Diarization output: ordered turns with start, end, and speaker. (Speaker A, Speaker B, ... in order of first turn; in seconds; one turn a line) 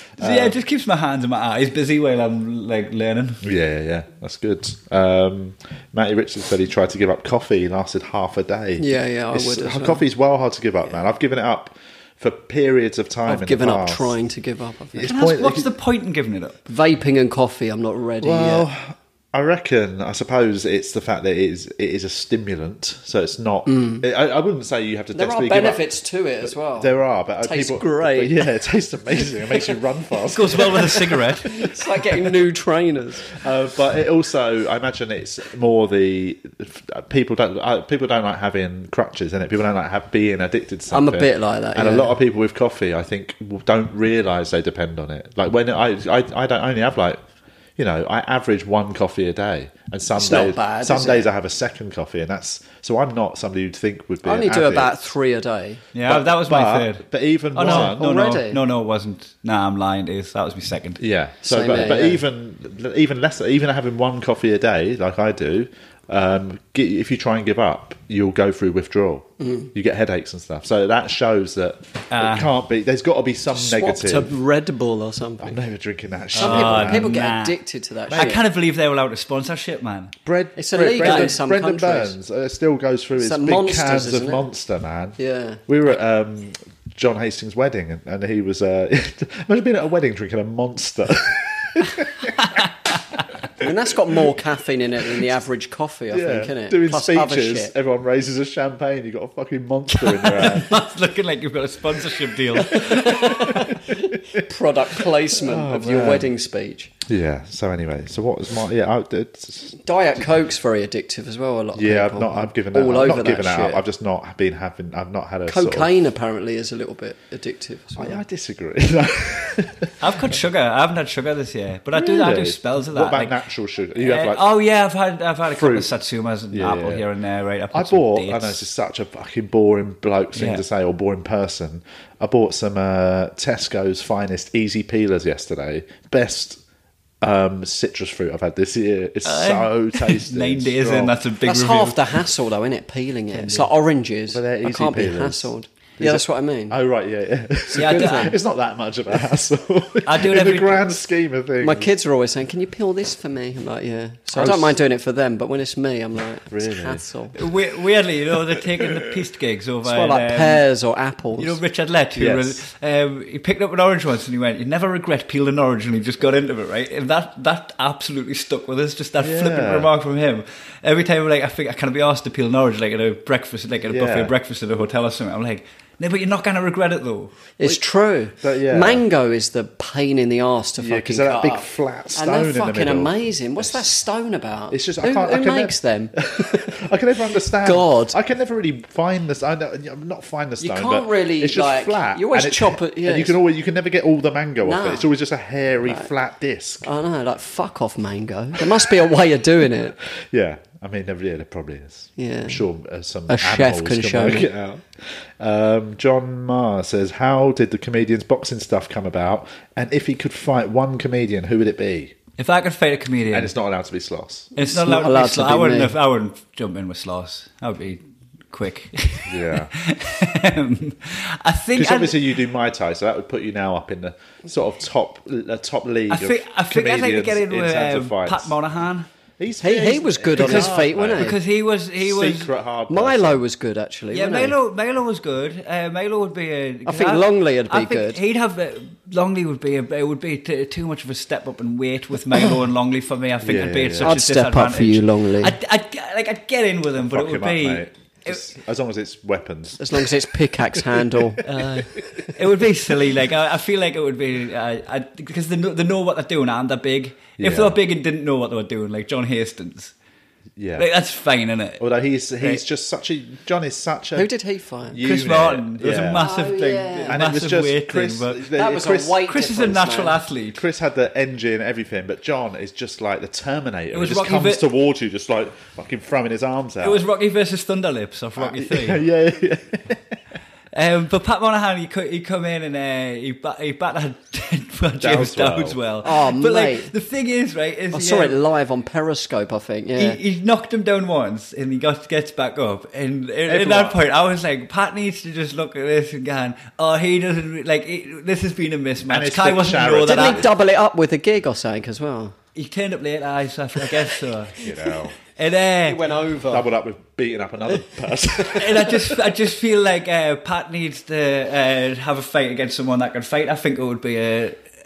Speaker A: 0.2-0.6
Speaker B: 0.2-3.4
Speaker A: 3.4-14.1
Speaker C: 8.8-10.0
Speaker C: 13.2-15.1
Speaker A: 14.9-15.7
Speaker B: 15.1-16.6
Speaker C: 16.7-18.7
Speaker A: 18.2-25.8
Speaker C: 23.6-24.1
Speaker C: 25.1-28.4
Speaker A: 26.4-31.3
Speaker B: 30.3-31.6
Speaker C: 30.6-33.3
Speaker A: 33.3-47.2
Speaker C: 40.9-42.1
Speaker A: 47.8-55.0
Speaker C: 50.1-51.3
Speaker C: 54.2-55.8
Speaker B: 55.9-61.0
Speaker A: 56.0-58.1
Speaker C: 57.6-58.6
Speaker A: 61.0-74.3
Speaker C: 61.4-62.2
Speaker C: 69.4-69.7
Speaker B: 72.1-72.5
Speaker C: 73.5-75.6
Speaker A: 75.4-77.1
Speaker C: 76.3-78.4
Speaker B: 76.3-77.6
Speaker B: 78.1-80.2
Speaker A: 80.2-92.6
Speaker C: 80.6-82.1
Speaker B: 81.0-81.3
Speaker C: 83.2-84.4
Speaker C: 85.2-85.6
Speaker C: 93.6-97.7
Speaker A: 96.1-100.8
Speaker B: 100.0-103.6
Speaker C: 102.6-106.9
Speaker A: 103.9-104.4
Speaker A: 105.3-106.3
Speaker A: 107.1-109.8
Speaker C: 109.8-113.8
Speaker A: 111.7-115.9
Speaker C: 115.5-118.2
Speaker A: 118.0-119.9
Speaker B: 120.0-123.3
Speaker A: 121.9-124.4
Speaker B: 124.0-128.6
Speaker A: 125.5-125.9
Speaker A: 126.5-127.0
Speaker A: 127.7-136.6
Speaker B: 130.3-130.6
Speaker A: 137.2-141.1
Speaker B: 139.2-142.0
Speaker C: 141.4-146.8
Speaker B: 143.3-143.7
Speaker A: 144.3-151.9
Speaker C: 147.7-148.3
Speaker B: 147.7-148.3
Speaker B: 150.0-150.9
Speaker C: 151.6-157.4
Speaker A: 154.3-154.8
Speaker A: 156.5-157.0
Speaker B: 157.3-160.6
Speaker A: 158.8-159.0
Speaker C: 159.8-161.6
Speaker B: 161.4-177.3
Speaker A: 162.2-162.6
Speaker A: 169.2-169.9
Speaker A: 173.9-174.3
Speaker C: 177.6-186.8
Speaker A: 178.4-179.0
Speaker A: 180.8-183.8
Speaker A: 184.7-196.9
Speaker C: 187.6-188.2
Speaker C: 190.6-193.4
Speaker C: 194.6-195.1
Speaker C: 196.8-200.0
Speaker A: 200.2-212.2
Speaker C: 202.2-202.6
Speaker C: 203.3-204.5
Speaker B: 212.4-213.5
Speaker A: 213.3-214.5
Speaker B: 214.6-222.4
Speaker C: 214.6-215.9
Speaker A: 219.3-219.7
Speaker A: 221.7-228.5
Speaker B: 226.1-229.1
Speaker A: 229.4-231.4
Speaker C: 229.6-231.3
Speaker B: 230.3-232.5
Speaker A: 232.0-233.4
Speaker C: 232.9-234.5
Speaker B: 234.1-248.5
Speaker C: 236.8-238.2
Speaker A: 243.4-244.2
Speaker C: 244.0-245.5
Speaker A: 247.0-250.1
Speaker C: 249.8-251.4
Speaker A: 250.7-251.6
Speaker B: 251.4-259.9
Speaker A: 257.4-257.8
Speaker A: 260.6-260.9
Speaker B: 260.8-261.9
Speaker A: 261.8-264.3
Speaker C: 264.1-265.0
Speaker A: 264.9-266.2
Speaker B: 265.0-268.5
Speaker C: 266.1-267.2
Speaker A: 267.1-269.2
Speaker C: 268.5-270.2
Speaker B: 269.2-270.6
Speaker A: 270.5-277.0
Speaker B: 273.9-274.6
Speaker B: 276.8-279.0
Speaker A: 278.4-280.1
Speaker B: 280.7-288.4
Speaker A: 285.0-285.8
Speaker C: 286.0-286.9
Speaker C: 287.9-290.2
Speaker B: 290.0-300.4
Speaker A: 293.4-294.0
Speaker A: 299.1-300.5
Speaker C: 300.1-302.3
Speaker B: 302.5-304.7
Speaker A: 304.6-305.2
Speaker B: 305.3-306.0
Speaker C: 305.8-306.7
Speaker A: 306.5-309.0
Speaker B: 308.5-314.6